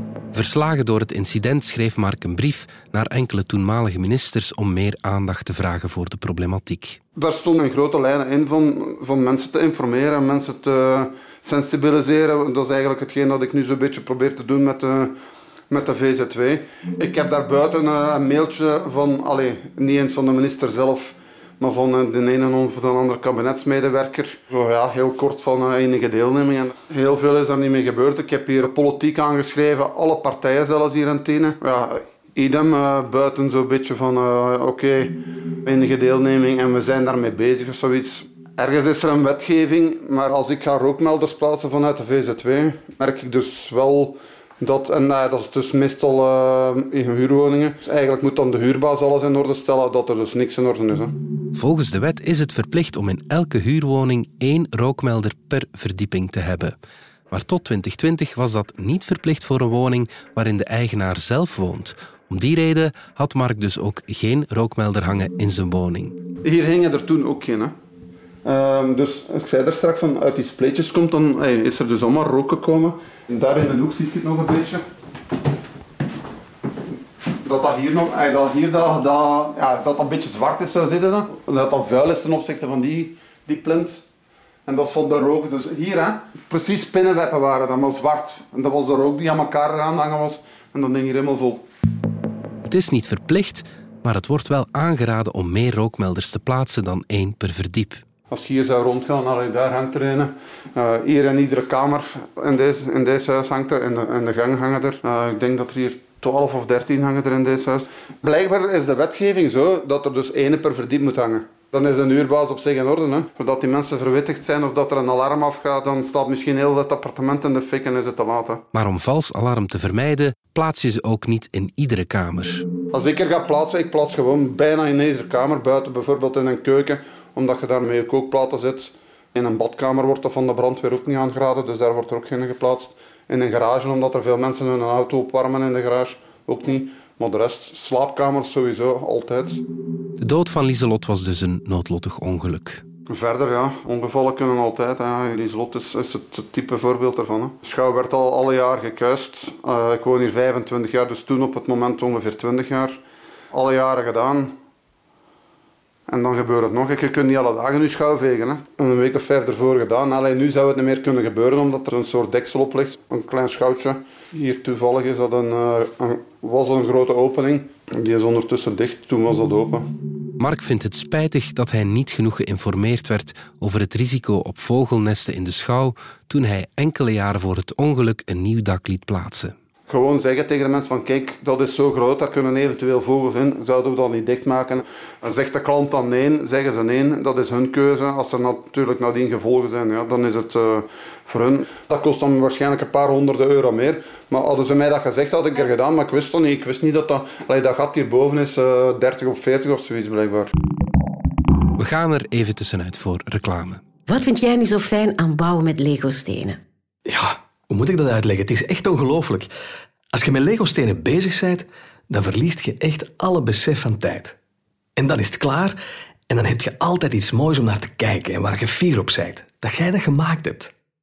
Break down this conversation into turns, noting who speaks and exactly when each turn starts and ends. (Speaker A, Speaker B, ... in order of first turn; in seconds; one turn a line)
Speaker A: 0.3-7.0
Speaker B: 7.2-15.1
Speaker B: 15.7-51.1
Speaker A: 51.5-56.8
Speaker A: 57.3-66.2
Speaker B: 66.4-67.7
Speaker B: 68.4-74.8
Speaker B: 77.4-84.0
Speaker B: 84.7-91.6
Speaker A: 92.6-98.0
Speaker B: 98.3-118.6
Speaker A: 118.7-122.6
Speaker B: 122.9-139.6
Speaker A: 140.2-142.8
Speaker B: 143.1-153.0
Speaker B: 153.5-154.5
Speaker B: 156.1-169.9
Speaker A: 170.4-179.5
Speaker B: 179.9-200.5
Speaker A: 201.8-203.8
Speaker C: 204.1-206.6
Speaker D: 207.1-209.5
Speaker D: 210.1-214.4
Speaker D: 215.0-220.7